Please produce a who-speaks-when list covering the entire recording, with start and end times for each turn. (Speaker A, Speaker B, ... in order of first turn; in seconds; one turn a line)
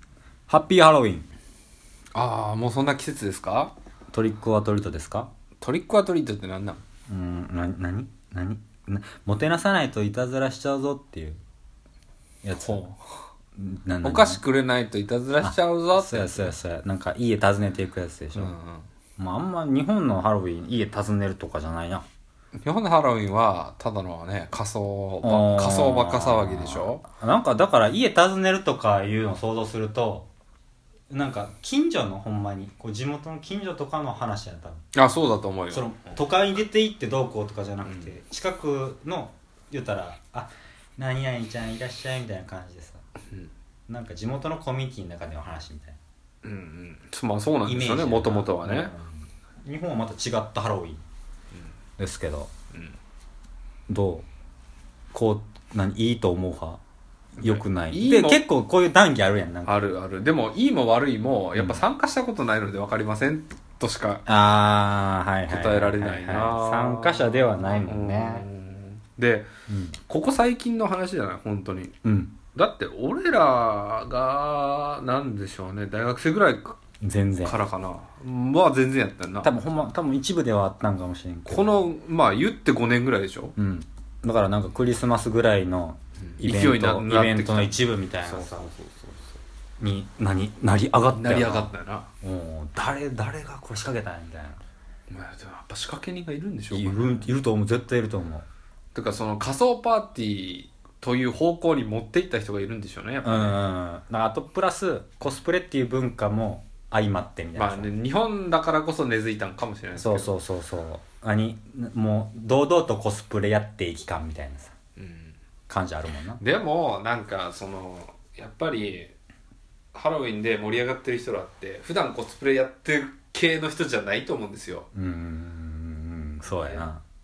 Speaker A: 0.5-1.3
Speaker B: 2.1-3.7
Speaker A: 4.1-5.3
Speaker B: 5.6-6.8
Speaker A: 7.1-11.4
Speaker A: 12.4-12.8
Speaker B: 12.6-13.2
Speaker A: 13.6-14.4
Speaker B: 14.0-16.5
Speaker A: 15.4-18.6
Speaker B: 18.3-18.9
Speaker A: 19.2-22.1
Speaker B: 22.6-27.0
Speaker A: 25.2-30.3
Speaker A: 31.1-34.9
Speaker B: 34.9-36.2
Speaker A: 35.7-43.0
Speaker B: 37.8-38.1
Speaker A: 43.9-46.0
Speaker B: 46.4-48.9
Speaker A: 47.6-51.0
Speaker A: 52.0-52.5
Speaker B: 52.7-53.0
Speaker A: 53.9-54.3
Speaker A: 55.1-56.8
Speaker B: 57.4-58.4
Speaker A: 57.4-59.9
Speaker B: 59.6-64.2
Speaker A: 61.5-61.8
Speaker A: 64.3-68.5
Speaker B: 65.5-69.5
Speaker A: 69.7-70.0
Speaker B: 70.1-72.0
Speaker A: 72.0-72.3
Speaker B: 72.5-76.8
Speaker A: 77.0-77.6
Speaker B: 77.4-79.6
Speaker A: 79.4-81.8
Speaker B: 81.5-83.5
Speaker A: 83.6-88.7
Speaker B: 86.2-89.4
Speaker A: 89.8-94.6
Speaker B: 91.1-92.1
Speaker B: 95.1-97.3
Speaker A: 96.7-98.5
Speaker B: 98.9-103.6
Speaker A: 103.2-107.9
Speaker B: 107.5-110.3
Speaker A: 110.0-114.7
Speaker B: 115.0-115.4
Speaker A: 115.7-116.4
Speaker B: 116.4-119.1
Speaker B: 119.9-124.9
Speaker A: 124.9-127.0
Speaker B: 126.4-126.9